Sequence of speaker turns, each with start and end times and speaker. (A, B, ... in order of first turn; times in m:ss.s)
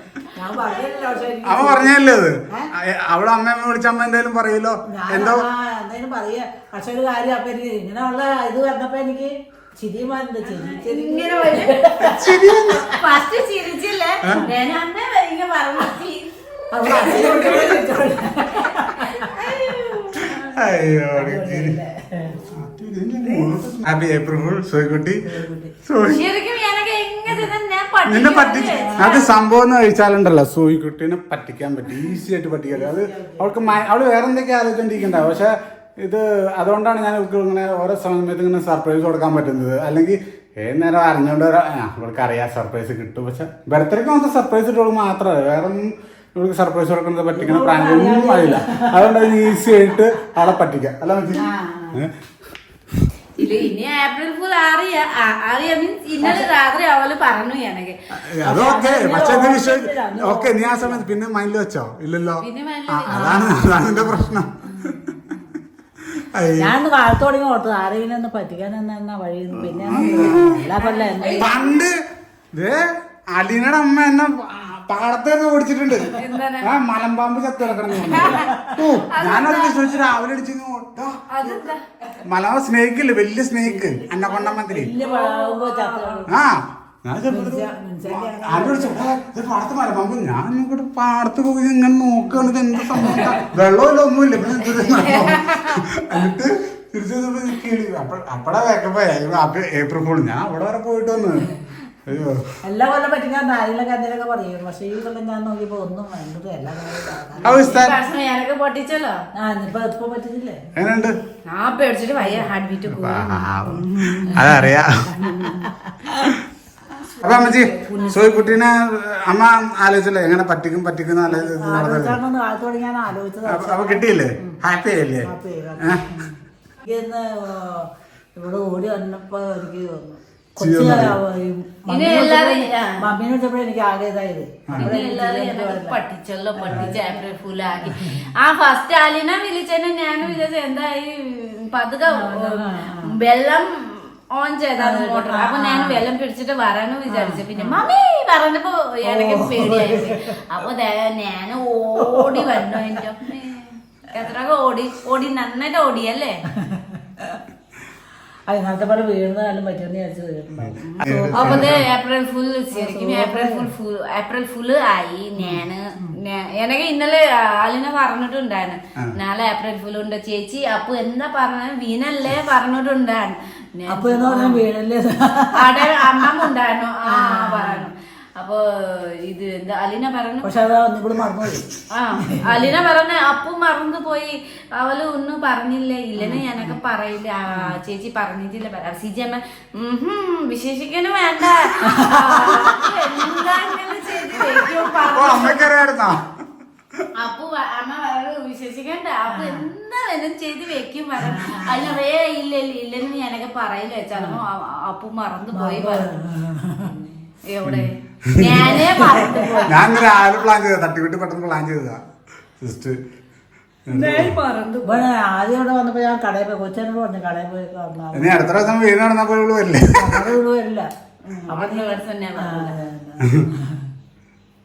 0:00.3-0:02.0 A
0:00.7-0:01.1 B
0:01.4-0:05.4 C
0:04.9-0:13.0 A
0:10.5-0:11.8 B
0:12.0-0:12.9 C
0:12.8-0:17.8 B
0:16.7-0:19.3 A
0:18.5-0:20.4 B
0:20.2-0:21.8 C
0:21.2-0:22.4 A
0:22.5-0:25.2 C
0:25.2-0:25.7 A
0:25.8-0:26.3 C
0:26.0-0:29.3 B
0:28.0-0:52.2 C
0:28.8-0:29.2 A
0:32.7-0:33.8 A
0:47.3-0:49.7 A
0:51.4-0:52.0 A
0:53.4-0:58.0 B
0:56.2-0:56.5 A
0:58.1-1:05.3 C
0:58.4-1:01.0 A
1:02.4-1:04.0 B
1:06.0-1:06.8 C
1:06.6-1:11.5 A
1:09.6-1:10.7 C
1:09.9-1:11.8 B
1:11.4-1:12.0 C
1:12.5-1:21.6 C
1:16.1-1:16.7 B
1:17.9-1:18.8 A
1:18.0-1:20.1 B
1:21.3-1:21.8 B
1:22.2-1:24.9 C
1:23.8-1:26.3 A
1:25.0-1:26.3 B
1:26.3-1:41.5 C
1:27.3-1:29.1 A
1:34.9-1:35.8 B
1:42.0-1:42.4 C
1:42.6-1:47.8 A
1:47.4-1:48.0 C
1:47.4-1:49.2 B
1:49.4-1:50.7 A
1:50.7-1:51.2 C
1:51.5-1:54.6 B
1:52.2-1:52.5 A
1:52.8-1:55.2 C
1:55.1-1:55.7 B
1:55.4-1:56.3 A
1:57.2-2:02.2 C
1:57.2-1:58.5 B
2:01.3-2:04.6 A
2:03.4-2:06.2 C
2:05.2-2:16.0 A
2:10.6-2:11.2 C
2:11.9-2:13.0 B
2:14.7-2:14.9 C
2:14.8-2:36.4 B
2:16.6-2:17.2 A
2:22.1-2:23.1 A
2:24.8-2:26.0 A
2:27.1-2:27.8 A
2:29.0-2:30.4 A
2:32.0-2:33.0 A
2:36.6-2:37.4 A
2:38.5-2:41.8 A
2:40.6-2:41.9 C
2:40.8-2:54.6 B
2:42.7-2:43.7 A
2:53.9-2:56.3 A
2:55.5-3:00.5 B
2:57.1-2:57.9 A
3:00.4-3:01.8 A
3:01.9-3:15.7 B
3:02.3-3:02.6 A
3:06.2-3:06.7 A
3:11.8-3:12.9 A
3:15.0-3:16.3 C
3:17.2-3:26.2 B
3:19.3-3:19.6 A
3:21.2-3:22.0 A
3:25.5-3:26.9 A
3:26.8-3:30.0 B
3:27.6-3:28.9 C
3:28.7-3:29.7 A
3:29.6-3:32.0 C
3:32.6-3:33.0 C
3:33.8-3:34.4 C
3:33.9-3:35.1 B
3:34.8-3:38.7 A
3:38.1-3:40.3 C
3:39.9-3:40.9 A
3:41.2-3:42.7 B
3:41.4-3:43.9 A
3:43.2-3:43.4 C